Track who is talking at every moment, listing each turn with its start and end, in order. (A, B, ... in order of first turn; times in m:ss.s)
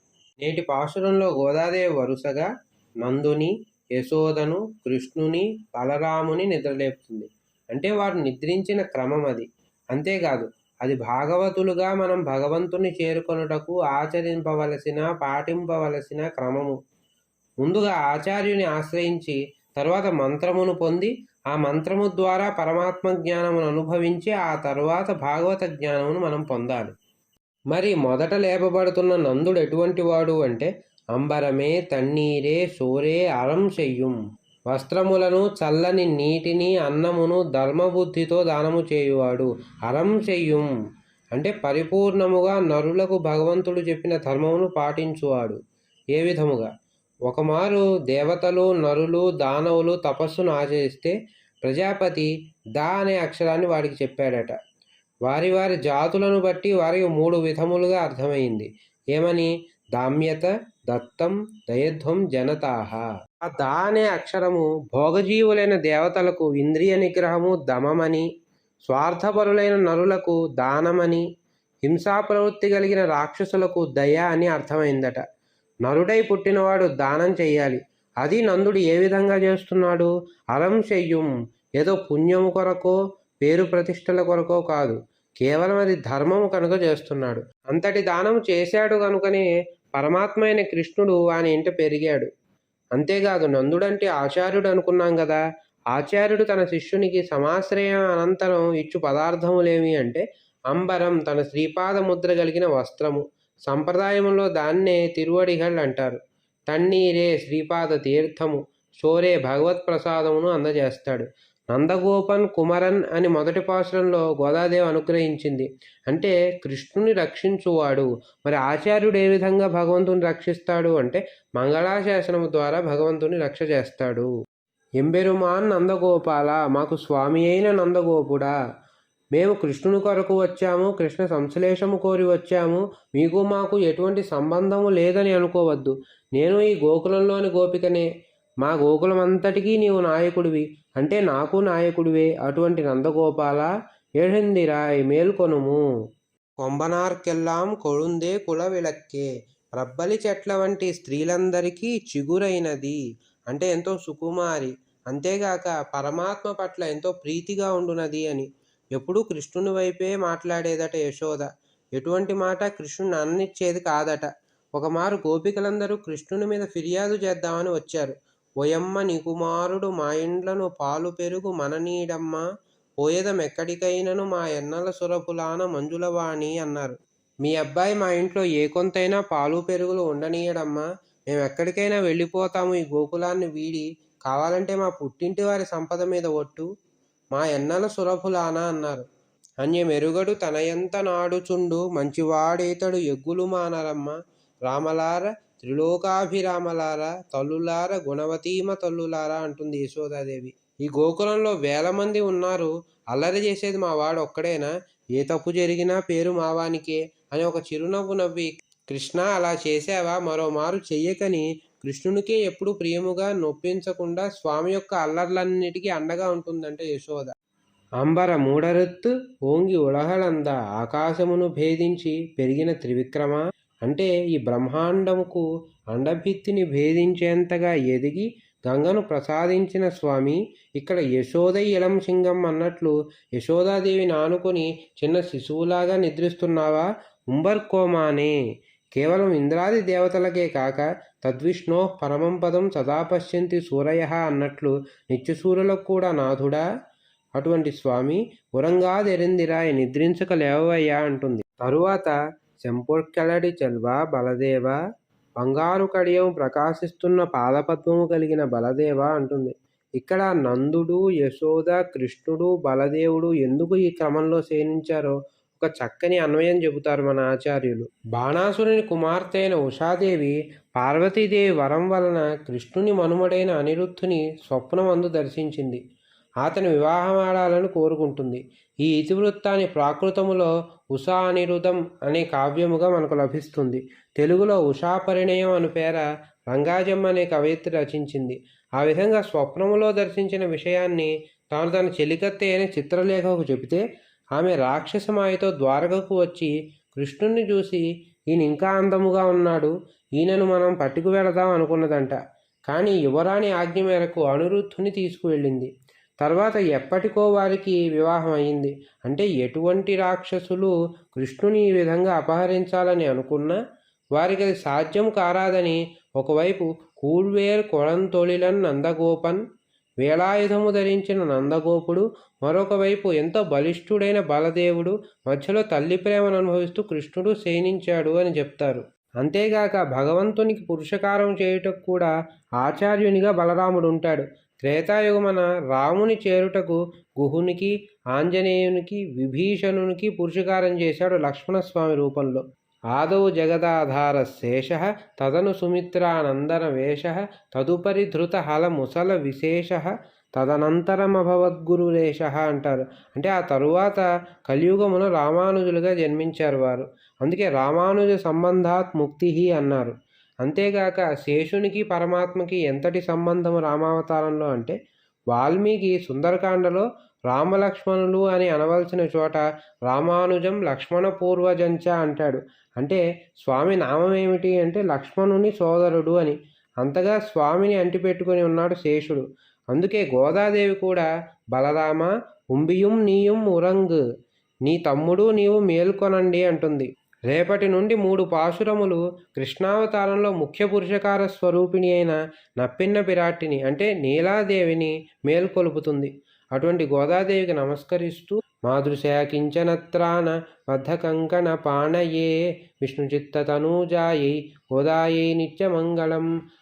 0:00.4-0:02.5 A
0:03.0-0:16.8 A
0:17.6-0:26.9 A
0:27.7-0:34.2 A
0:34.7-0:40.7 A
0:41.4-0:45.6 A
0:46.2-0:46.7 A
0:47.3-0:54.6 A
0:55.3-1:08.2 A
1:08.9-1:11.2 A
1:11.8-1:15.2 A
1:15.8-1:21.3 A
1:21.8-1:29.4 A
1:30.0-1:32.3 A
1:33.0-1:35.4 A
1:35.9-1:46.2 A
1:46.7-2:04.3 A
2:05.0-2:08.5 A
2:09.3-2:18.1 A
2:18.6-2:23.7 A
2:24.2-2:25.8 A
2:26.6-2:29.3 A
2:29.8-2:33.0 A
2:33.5-2:52.4 A
2:53.0-3:06.7 A
3:07.3-3:09.0 A
3:09.6-3:14.2 A
3:14.7-3:37.3 A
3:38.0-3:58.3 A
3:59.0-4:06.6 A
4:07.4-4:12.1 A
4:12.6-4:14.8 A
4:15.4-4:35.8 A
4:36.4-4:53.8 A
4:54.4-5:02.2 A
5:02.7-5:05.7 A
5:06.2-5:13.6 A
5:14.2-5:19.4 A
5:20.0-5:42.4 A
5:42.9-5:59.9 A
6:00.4-6:04.8 A
6:05.3-6:24.0 A
6:24.7-6:46.3 A